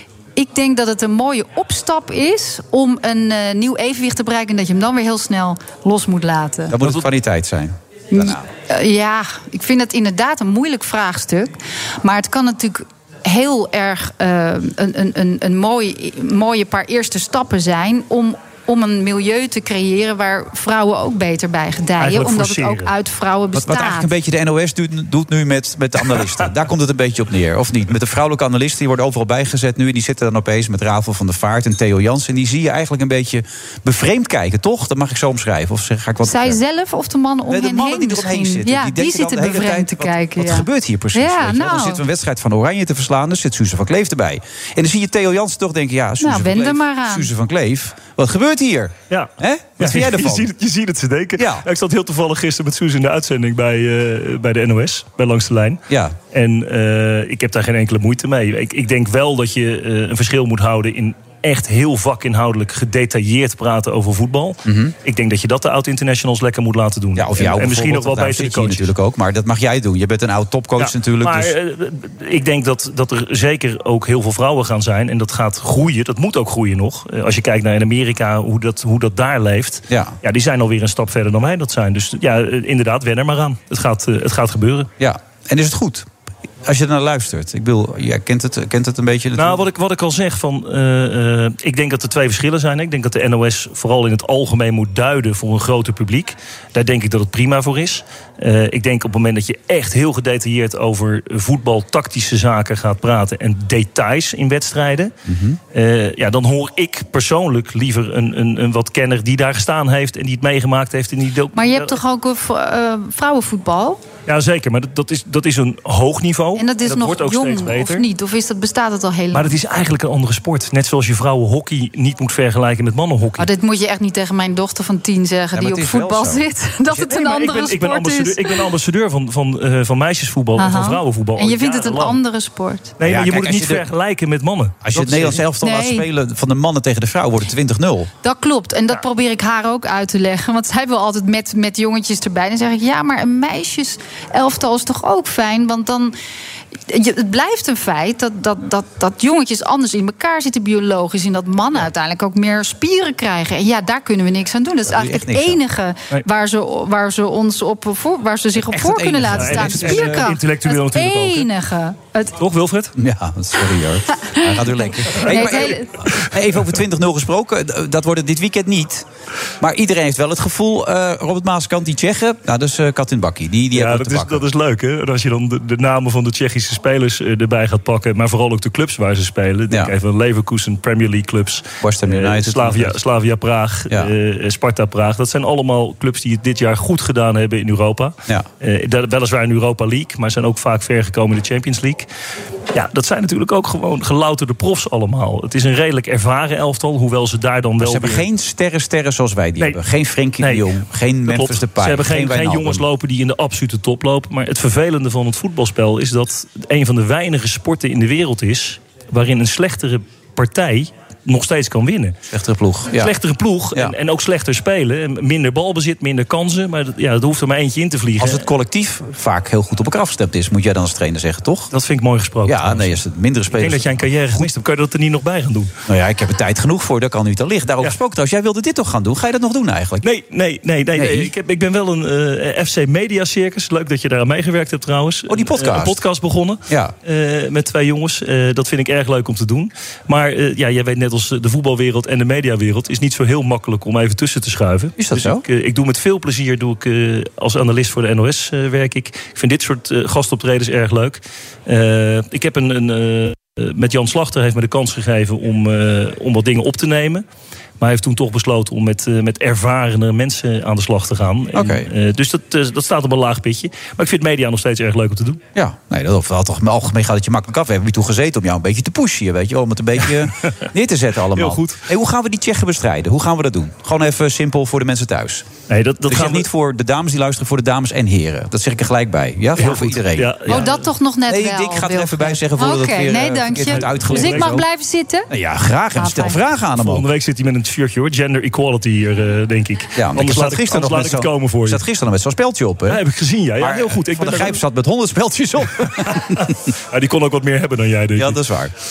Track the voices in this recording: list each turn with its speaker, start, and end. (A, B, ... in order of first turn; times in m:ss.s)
0:00.4-0:06.8 A
0:06.7-0:08.5 B
0:08.1-0:24.1 A
0:22.0-0:22.9 C
0:23.5-0:36.6 B
0:36.2-0:42.0 A
0:37.5-0:50.5 B
0:46.2-0:47.3 A
0:49.1-1:08.9 C
0:51.4-0:51.6 B
0:55.9-0:56.2 B
1:04.6-1:04.9 B
1:07.2-1:11.5 B
1:10.8-1:24.9 C
1:19.9-1:20.2 B
1:25.0-1:26.1 B
1:26.6-1:29.6 B
1:29.4-1:45.1 C
1:45.3-1:45.6 B
1:45.7-1:52.0 C
1:51.5-1:54.0 A
1:54.3-1:58.0 C
1:56.6-1:59.6 A
1:59.3-2:03.5 C
2:03.4-2:08.7 A
2:05.5-2:06.4 B
2:06.9-2:12.2 C
2:10.6-2:12.9 A
2:13.0-2:15.4 C
2:13.0-2:13.8 B
2:14.8-2:18.1 B
2:15.6-2:16.0 A
2:18.2-2:26.1 A
2:26.9-2:42.3 A
2:34.9-2:35.6 B
2:38.6-2:40.4 B
2:39.3-2:41.5 C
2:42.4-2:42.9 C
2:43.0-2:49.0 B
2:44.2-2:45.9 A
2:49.6-2:54.4 B
2:53.7-3:12.1 C
3:01.8-3:02.9 B
3:12.7-3:18.2 C
3:17.8-3:22.8 B
3:20.4-3:32.2 C
3:32.3-3:33.1 B
3:32.9-3:38.5 C
3:38.2-3:41.7 B
3:41.7-3:43.0 C
3:42.4-3:44.5 B
3:43.5-3:45.7 C
3:45.9-3:50.0 B
3:50.0-4:17.2 C
3:50.9-3:51.3 B
3:55.3-3:56.0 B
3:56.7-3:56.9 B
4:05.0-4:05.4 B
4:17.8-4:25.4 C
4:21.5-4:21.9 B
4:25.5-4:35.5 B
4:31.3-4:31.8 C
4:35.7-4:36.5 C
4:36.1-4:40.7 B
4:39.6-4:40.8 C
4:40.5-4:45.3 A
4:41.3-4:44.6 B
4:43.6-4:44.6 C
4:45.3-4:47.0 B
4:45.9-4:46.4 A
4:46.8-4:51.8 C
4:49.9-4:53.0 B
4:52.9-4:54.6 C
4:53.6-4:56.5 B
4:56.4-4:58.4 C
4:58.2-4:58.7 B